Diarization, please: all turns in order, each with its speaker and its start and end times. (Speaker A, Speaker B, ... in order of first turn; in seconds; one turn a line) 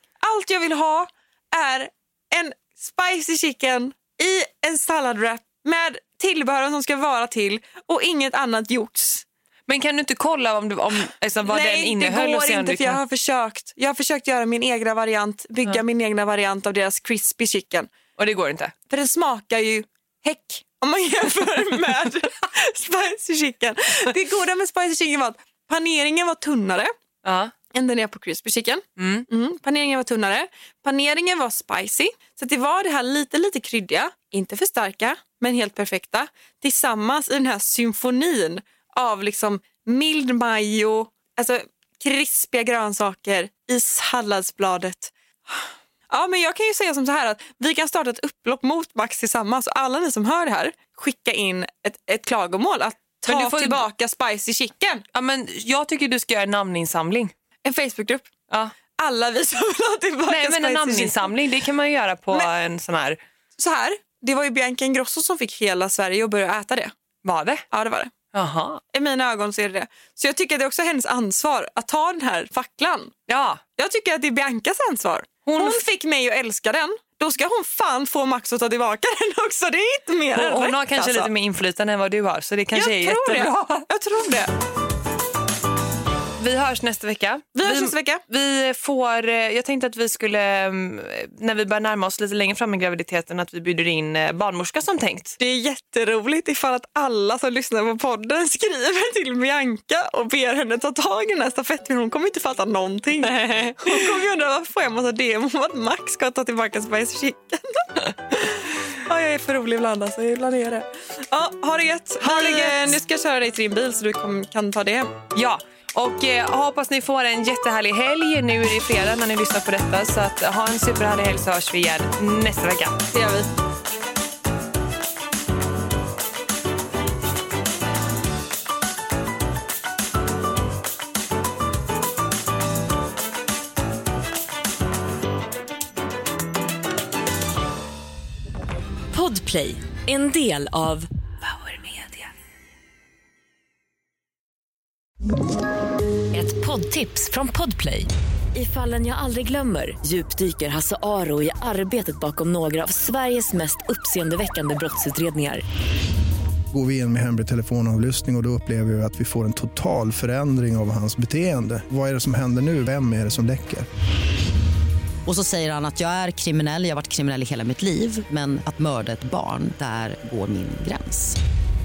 Speaker A: 0.2-9.2
Speaker B: 9.7-13.0
Speaker A: 11.4-17.9
Speaker B: 18.2-18.7
Speaker A: 18.9-26.9
Speaker B: 27.2-27.5
Speaker A: 27.7-55.0
Speaker B: 29.0-29.3
Speaker B: 53.3-53.8
Speaker B: 55.1-57.3
Speaker A: 57.6-58.2
Speaker B: 58.5-58.7
Speaker A: 59.0-61.3
Speaker B: 60.3-63.2
Speaker A: 63.6-66.9
Speaker B: 67.2-67.6
Speaker A: 67.7-68.1
Speaker B: 68.3-68.8
Speaker A: 68.9-73.1
Speaker B: 73.3-73.6
Speaker A: 73.8-81.3
Speaker B: 75.5-75.8
Speaker B: 80.3-83.9
Speaker A: 82.7-84.5
Speaker B: 86.4-95.4
Speaker A: 87.5-88.2
Speaker A: 95.4-115.1
Speaker B: 103.2-104.0
Speaker B: 112.2-112.9
Speaker B: 115.3-123.0
Speaker A: 123.1-123.5
Speaker C: 139.1-142.3
Speaker C: 146.3-155.6
Speaker D: 156.7-163.9
Speaker E: 165.2-171.4